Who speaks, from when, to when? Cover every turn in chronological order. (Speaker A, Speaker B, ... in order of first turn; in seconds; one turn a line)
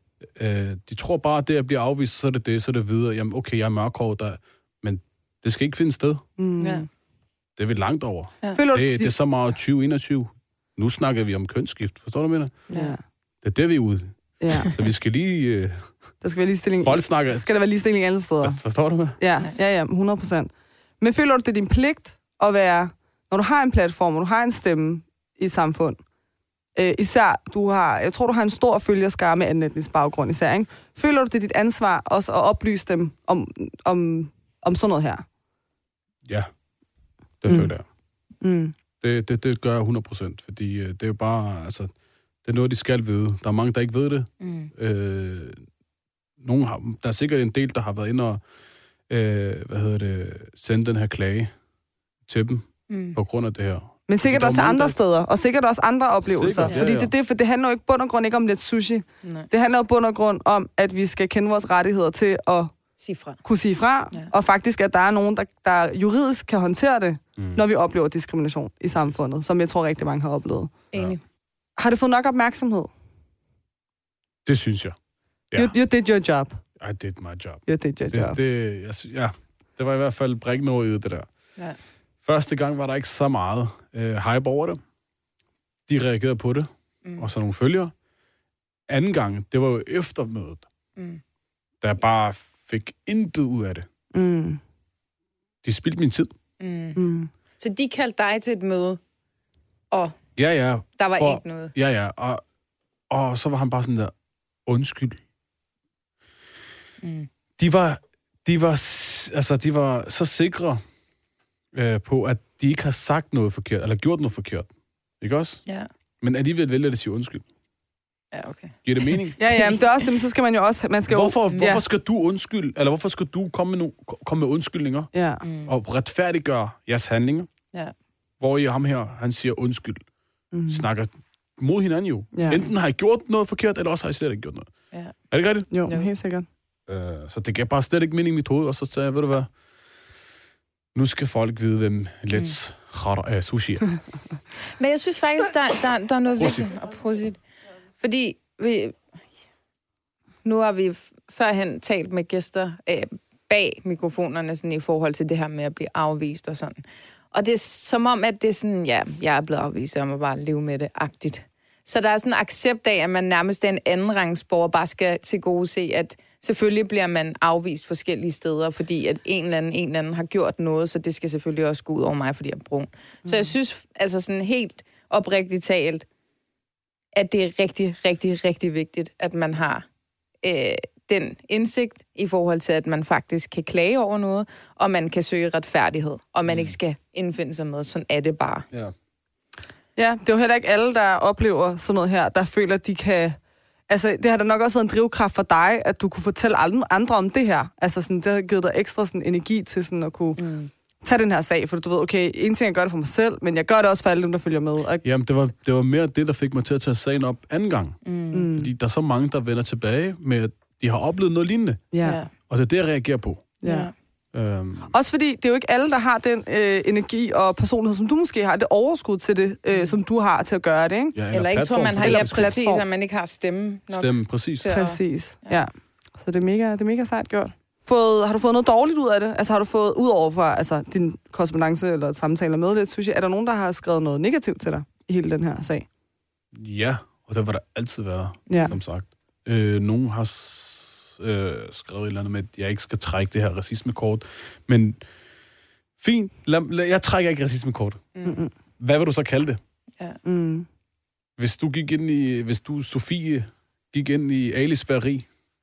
Speaker A: 0.2-6.2
Speaker B: 6.4-6.9
Speaker C: 6.6-6.9
Speaker A: 7.6-12.6
Speaker B: 8.5-9.1
Speaker B: 12.7-13.0
Speaker C: 12.7-13.0
Speaker A: 13.4-15.9
Speaker B: 14.4-14.8
Speaker B: 16.2-18.6
Speaker A: 16.8-17.5
Speaker A: 18.4-19.2
Speaker B: 19.2-26.0
Speaker B: 26.8-35.2
Speaker A: 37.4-37.9
Speaker B: 37.5-37.7
Speaker B: 38.4-38.7
Speaker A: 39.0-41.9
Speaker A: 42.4-45.6
Speaker C: 44.4-44.7
Speaker A: 46.4-48.4
Speaker A: 49.1-51.5
Speaker A: 52.3-55.0
Speaker C: 52.9-53.2
Speaker B: 54.1-62.7
Speaker A: 56.2-57.1
Speaker C: 59.2-59.5
Speaker C: 63.0-63.4
Speaker B: 63.4-70.7
Speaker A: 67.4-67.6
Speaker C: 70.9-71.2
Speaker B: 71.8-72.9
Speaker A: 74.5-75.0
Speaker B: 75.5-76.6
Speaker A: 76.8-81.3
Speaker B: 77.7-78.4
Speaker A: 82.2-84.8
Speaker A: 85.9-87.9
Speaker A: 88.9-90.7
Speaker A: 91.8-93.9
Speaker B: 94.1-94.6
Speaker A: 95.6-96.3
Speaker C: 96.6-97.0
Speaker B: 97.0-97.3
Speaker C: 97.6-99.0
Speaker A: 100.4-102.4
Speaker C: 101.0-101.7
Speaker A: 103.1-104.1
Speaker A: 104.7-105.2
Speaker C: 107.0-107.3
Speaker A: 107.6-110.8
Speaker A: 111.7-114.7
Speaker A: 115.2-115.6
Speaker A: 116.2-117.4
Speaker C: 118.3-118.8
Speaker A: 118.8-119.4
Speaker B: 119.4-121.8
Speaker A: 121.1-125.1
Speaker B: 125.1-125.4
Speaker C: 125.4-125.7
Speaker A: 125.7-127.5
Speaker A: 128.4-130.0
Speaker B: 130.5-130.8
Speaker A: 130.7-134.7
Speaker B: 132.3-132.6
Speaker A: 135.3-135.7
Speaker B: 135.7-136.5
Speaker A: 136.9-139.5
Speaker A: 140.9-144.0
Speaker C: 144.8-147.4
Speaker A: 146.4-146.7
Speaker C: 148.0-149.0
Speaker C: 150.4-176.1
Speaker C: 177.1-179.8
Speaker C: 180.4-188.7
Speaker A: 186.5-186.7
Speaker B: 190.0-193.4
Speaker B: 193.9-200.4
Speaker C: 200.4-200.7
Speaker B: 201.0-205.0
Speaker A: 205.0-208.0
Speaker C: 208.1-208.5
Speaker B: 208.3-208.7
Speaker A: 208.5-211.8
Speaker B: 211.9-212.2
Speaker C: 212.0-212.3
Speaker A: 212.5-213.5
Speaker B: 213.6-213.9
Speaker C: 213.7-213.9
Speaker A: 214.3-214.9
Speaker B: 214.9-221.2
Speaker A: 221.2-222.6
Speaker C: 221.3-225.6
Speaker B: 222.0-222.8
Speaker A: 223.9-224.7
Speaker B: 224.7-235.9
Speaker A: 236.5-245.0
Speaker B: 238.5-238.8
Speaker A: 246.0-248.1
Speaker C: 248.2-248.4
Speaker B: 248.2-248.5
Speaker A: 248.8-249.6
Speaker B: 250.2-250.7
Speaker A: 251.4-255.3